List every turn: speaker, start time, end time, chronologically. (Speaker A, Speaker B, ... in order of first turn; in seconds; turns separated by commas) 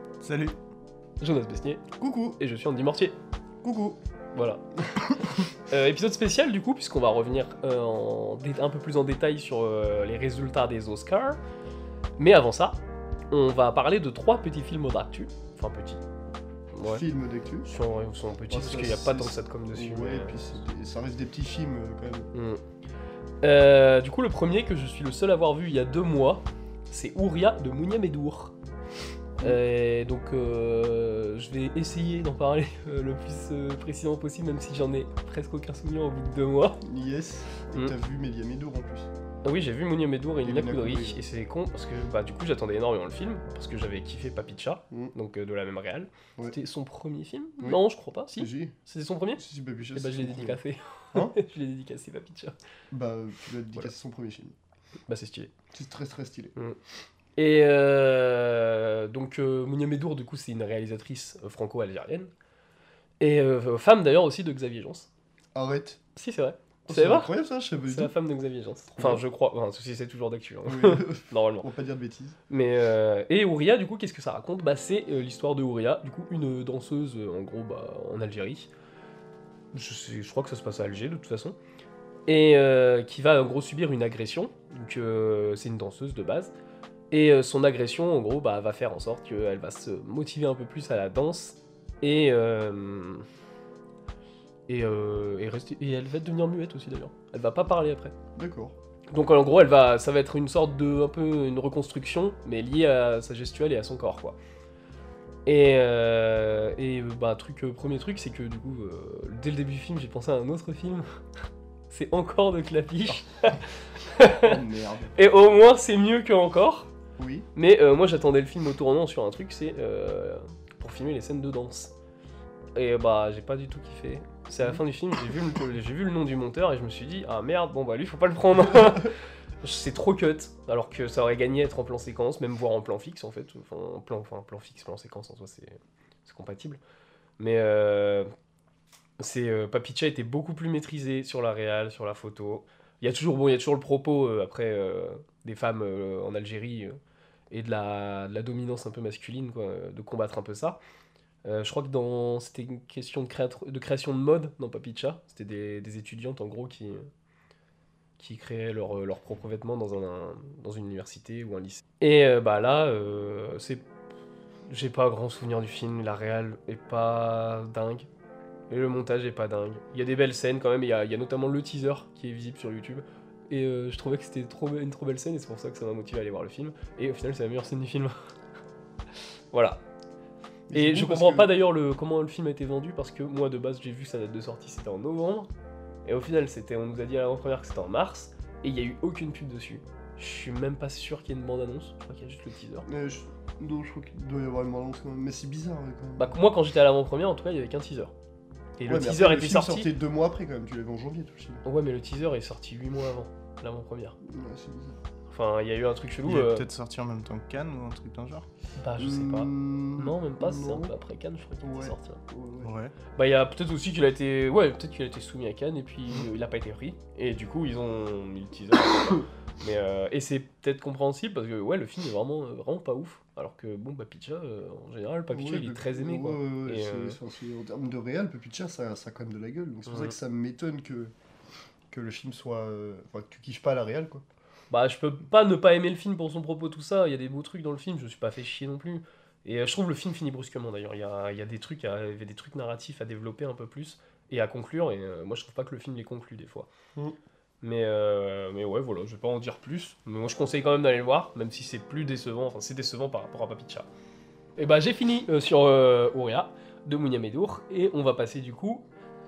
Speaker A: 0.2-0.6, Speaker B: 1.2-1.9, Speaker C: 2.0-2.4, Speaker B: 2.4-3.2, Speaker C: 3.6-4.0, Speaker B: 4.3-4.6, Speaker B: 5.3-11.4, Speaker B: 12.2-12.8, Speaker B: 13.3-16.0, Speaker B: 16.7-17.0, Speaker C: 16.8-17.7, Speaker B: 17.6-20.4, Speaker C: 18.5-22.3, Speaker B: 22.3-22.6, Speaker B: 23.4-28.5, Speaker B: 29.4-36.8, Speaker C: 36.8-39.1, Speaker B: 39.4-52.5, Speaker C: 40.4-41.2, Speaker C: 48.4-48.7, Speaker C: 49.4-50.6, Speaker C: 52.9-54.5, Speaker B: 55.1-55.5, Speaker C: 55.7-56.5, Speaker B: 57.4-62.3, Speaker B: 63.2-65.1, Speaker C: 65.5-66.0, Speaker B: 66.2-71.7, Speaker C: 66.9-68.1, Speaker C: 68.9-69.2, Speaker C: 70.6-72.3, Speaker B: 72.5-78.7, Speaker B: 79.7-81.6, Speaker B: 82.3-86.5, Speaker B: 87.1-93.2, Speaker B: 94.7-98.1, Speaker C: 98.3-98.7, Speaker B: 99.1-104.4, Speaker B: 105.5-111.0, Speaker B: 111.9-114.6, Speaker C: 114.4-115.1, Speaker B: 115.1-116.9, Speaker C: 117.2-117.5, Speaker B: 117.5-121.9, Speaker B: 122.7-136.8, Speaker B: 137.4-138.3, Speaker B: 139.2-147.0, Speaker B: 147.5-150.8, Speaker B: 151.4-157.1, Speaker B: 158.2-163.8, Speaker B: 164.7-168.1, Speaker B: 168.7-178.1, Speaker B: 179.5-179.8, Speaker C: 180.7-181.5, Speaker B: 180.7-185.5, Speaker B: 186.0-192.8, Speaker C: 192.8-196.4, Speaker B: 196.2-198.1, Speaker B: 198.8-199.9, Speaker C: 198.8-201.6, Speaker B: 201.6-204.2, Speaker C: 204.2-205.0, Speaker B: 205.3-206.7, Speaker A: 206.2-208.5, Speaker B: 208.8-212.2, Speaker C: 209.0-210.9, Speaker C: 211.6-212.7, Speaker A: 212.6-212.9, Speaker B: 213.2-227.2, Speaker C: 225.3-231.1, Speaker B: 229.8-230.1, Speaker C: 231.9-234.2, Speaker B: 234.7-246.7, Speaker B: 247.6-253.9, Speaker B: 254.6-258.8